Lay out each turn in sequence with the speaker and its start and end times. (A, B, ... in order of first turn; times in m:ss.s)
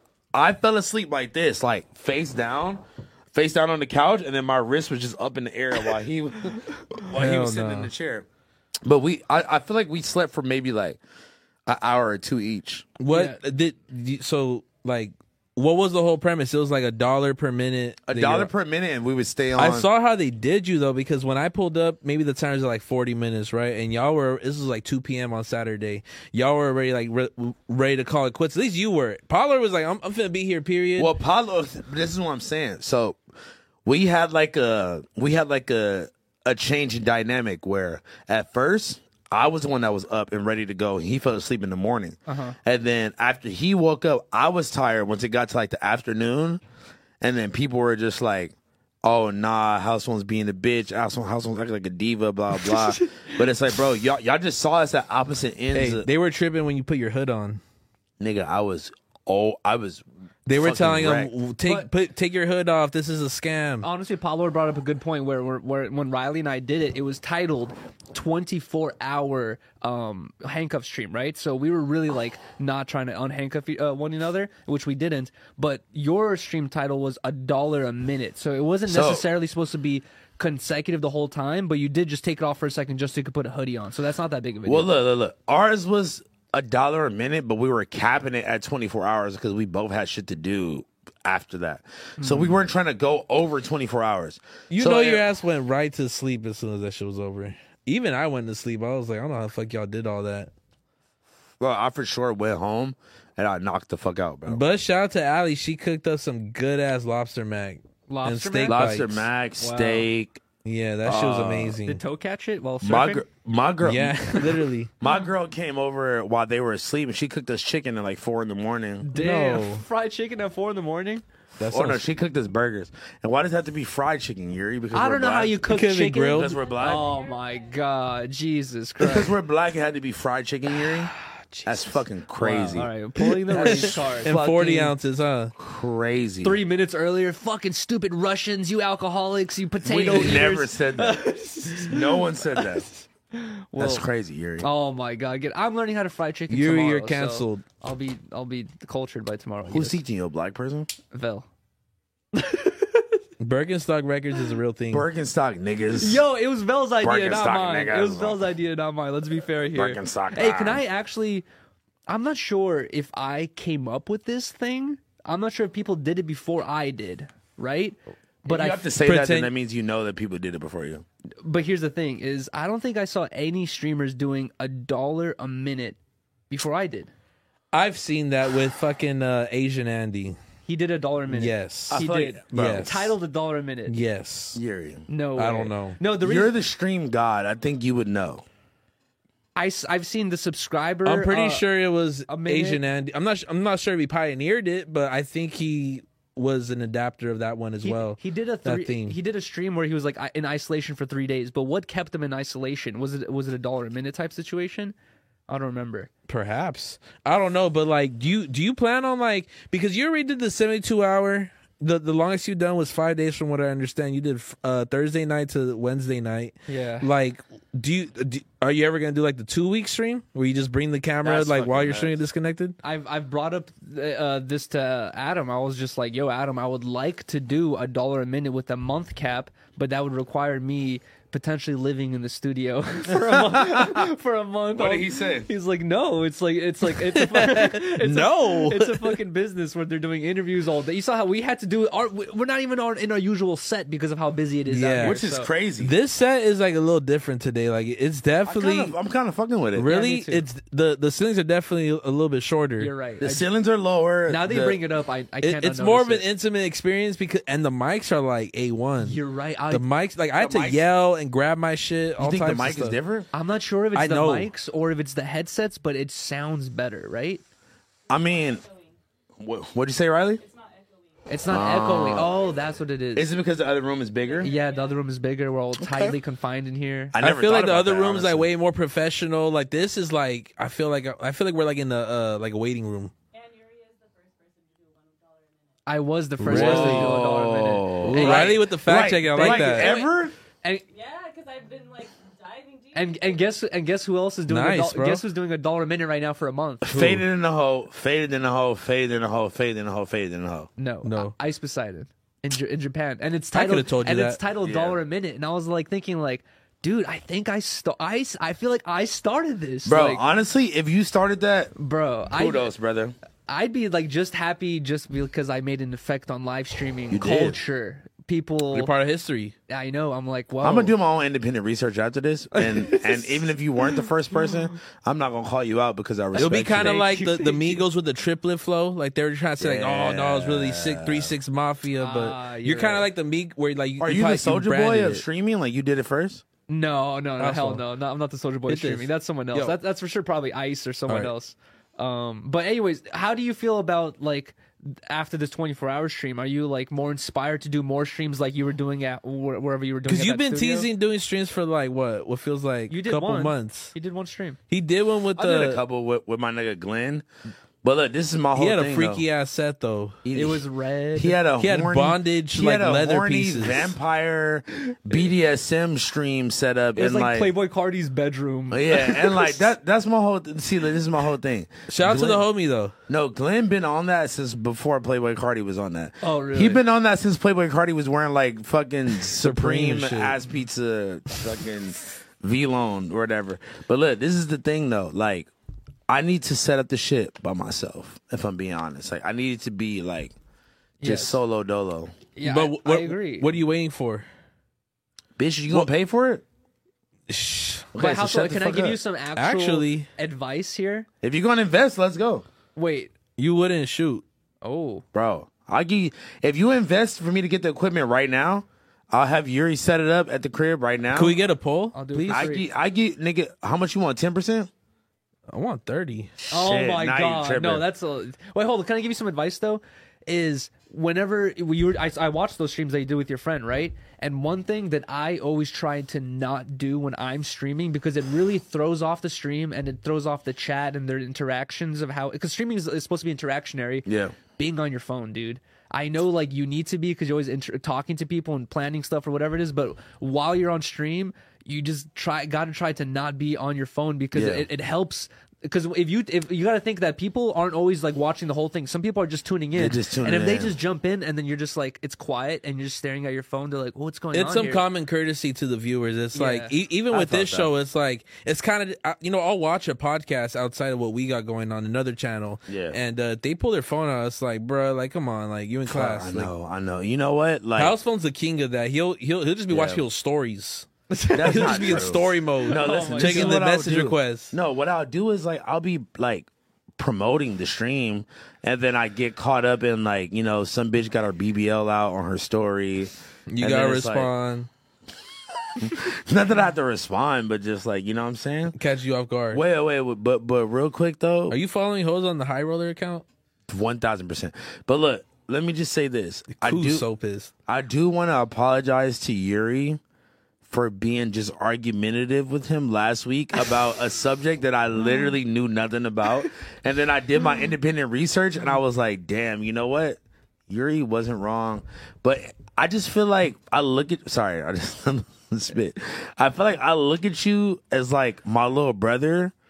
0:00.3-0:08.2 A
0:07.1-0:07.9 B
0:08.8-0:11.0 A
0:11.6-0:12.9 A
0:13.0-0:18.5 B
0:13.1-0:13.4 C
0:18.1-0:19.9 A
0:19.5-0:31.1 B
0:31.0-0:33.2 A
0:33.8-0:46.6 A
0:42.3-0:42.6 C
0:47.2-0:56.1 A
0:55.7-0:57.6 B
0:58.2-1:00.0 A
1:00.4-1:03.8 B
1:00.6-1:01.3 A
1:03.8-1:24.9 C
1:18.9-1:19.3 A
1:24.6-1:35.2 A
1:32.2-1:32.6 C
1:34.7-1:40.5 B
1:41.6-1:44.6 A
1:44.5-1:49.2 B
1:48.1-1:48.9 C
1:48.7-1:50.4 A
1:49.6-1:50.1 C
1:50.6-1:52.0 B
1:51.0-1:51.8 A
1:51.8-1:53.2 C
1:52.8-1:54.5 A
1:53.8-1:54.9 B
1:55.0-1:59.1 A
1:59.0-2:01.2 C
1:59.1-1:59.8 B
2:01.6-2:02.0 B
2:01.6-2:05.6 A
2:04.9-2:09.3 C
2:05.7-2:06.6 B
2:06.3-2:07.1 A
2:06.6-2:07.6 D
2:09.0-2:11.1 A
2:10.8-2:14.9 C
2:11.6-2:12.9 A
2:13.5-2:15.5 B
2:13.5-2:14.0 A
2:15.6-2:16.6 A
2:16.4-2:22.7 C
2:19.8-2:22.9 A
2:23.3-2:24.0 C
2:23.8-2:24.7 A
2:24.6-2:30.0 C
2:26.5-2:27.6 B
2:29.7-2:30.9 A
2:31.1-2:31.5 C
2:32.3-2:33.2 C
2:33.4-2:35.0 B
2:34.9-2:36.2 A
2:36.0-2:41.4 C
2:37.0-2:38.4 A
2:39.7-2:40.8 A
2:42.1-2:48.9 C
2:48.4-2:51.0 A
2:49.0-2:49.5 B
2:51.4-2:56.0 C
2:56.5-2:57.1 C
2:57.7-3:00.4 B
3:00.7-3:04.0 C
3:01.3-3:02.0 B
3:01.9-3:03.1 A
3:02.5-3:03.0 B
3:03.9-3:04.6 B
3:04.5-3:05.1 A
3:05.1-3:06.5 C
3:05.4-3:06.0 B
3:06.2-3:08.4 A
3:09.6-3:11.6 C
3:11.0-3:19.2 B
3:12.3-3:12.8 C
3:17.8-3:24.9 C
3:25.5-3:26.1 C
3:26.3-3:42.8 B
3:36.7-3:37.1 C
3:41.2-3:42.2 A
3:42.8-4:05.5 C
3:53.4-3:54.0 A
3:54.7-3:55.5 A
3:57.1-3:59.2 B
4:04.7-4:05.1 B
4:05.0-4:05.9 A
4:05.8-4:08.9 B
4:08.4-4:09.9 A
4:09.7-4:12.9 B
4:09.8-4:10.4 C
4:12.8-4:13.4 C
4:13.2-4:14.8 A
4:14.3-4:16.2 C
4:15.4-4:19.2 B
4:19.0-4:19.8 C
4:19.7-4:23.0 B
4:20.4-4:20.8 A
4:22.2-4:23.3 A
4:23.3-4:27.4 C
4:23.9-4:24.5 B
4:28.1-4:28.6 A
4:28.1-4:29.0 D
4:29.4-4:30.4 A
4:30.4-4:35.0 D
4:31.3-4:33.3 C
4:31.5-4:32.4 A
4:33.1-4:34.5 A
4:34.4-4:37.2 C
4:35.8-4:36.2 A
4:37.1-4:38.5 A
4:37.2-4:43.1 B
4:43.3-4:45.8 D
4:45.8-4:48.6 C
4:46.4-4:50.3 A
4:46.4-4:47.2 B
4:48.0-4:49.9 B
4:49.3-4:50.8 C
4:50.9-4:53.5 D
4:52.9-4:56.9 C
4:54.5-4:55.2 B
4:56.8-5:00.7 A
4:56.8-4:57.2 B
5:00.8-5:10.2 C
5:01.0-5:01.3 B
5:03.5-5:04.4 B
5:04.6-5:05.0 A
5:09.8-5:11.7 A
5:11.8-5:12.7 C
5:12.3-5:13.1 A
5:13.5-5:18.9 C
5:17.1-5:17.6 A
5:18.7-5:19.5 B
5:19.7-5:20.9 C
5:20.6-5:27.1 A
5:22.5-5:23.4 C
5:26.3-5:35.2 B
5:26.8-5:27.8 C
5:29.6-5:31.3 A
5:32.0-5:33.1 C
5:34.0-5:36.4 A
5:36.7-5:50.9 C
5:37.4-5:37.8 B
5:38.7-5:39.8 B
5:41.1-5:41.3 B
5:50.0-5:53.9 B
5:52.9-5:54.6 C
5:54.7-5:55.8 B
5:55.4-5:57.2 A
5:57.8-5:59.2 A
5:58.5-6:00.2 B
6:00.2-6:00.6 A
6:00.3-6:01.4 C
6:01.1-6:07.5 A
6:01.6-6:03.9 B
6:07.0-6:09.6 C
6:08.7-6:12.4 A
6:11.9-6:12.9 B
6:13.1-6:25.5 A
6:16.2-6:16.8 C
6:19.3-6:20.4 B
6:26.1-6:30.3 A
6:31.0-6:31.4 C
6:31.0-6:32.1 A
6:32.4-6:33.5 C
6:32.4-6:34.2 B
6:35.4-6:36.4 A
6:37.3-6:37.9 B
6:37.9-6:39.0 A
6:38.0-6:41.1 C
6:39.4-6:40.1 B
6:41.2-6:42.4 A
6:42.8-6:43.1 C
6:43.4-6:44.2 B
6:44.6-6:45.0 C
6:45.1-6:51.4 A
6:51.1-6:52.5 B
6:51.9-6:52.7 C
6:52.3-6:54.7 A
6:55.5-6:56.4 B
6:56.4-6:57.8 A
6:56.5-7:34.8 C
7:14.0-7:14.4 A
7:24.3-7:24.7 A
7:29.7-7:30.8 A
7:34.3-7:46.5 B
7:36.3-7:36.7 C
7:37.1-7:37.7 A
7:42.7-7:43.0 A
7:45.9-7:48.0 A
7:47.8-7:54.5 B
7:49.7-7:50.0 A
7:51.1-7:52.1 C
7:51.3-8:04.3 A
7:52.6-7:53.6 C
8:03.5-8:04.7 B
8:05.8-8:08.8 A
8:08.8-8:09.6 B
8:09.5-8:11.6 A
8:11.5-8:13.2 B
8:13.7-8:17.0 A
8:16.6-8:17.5 B
8:17.7-8:20.0 A
8:20.7-8:39.5 A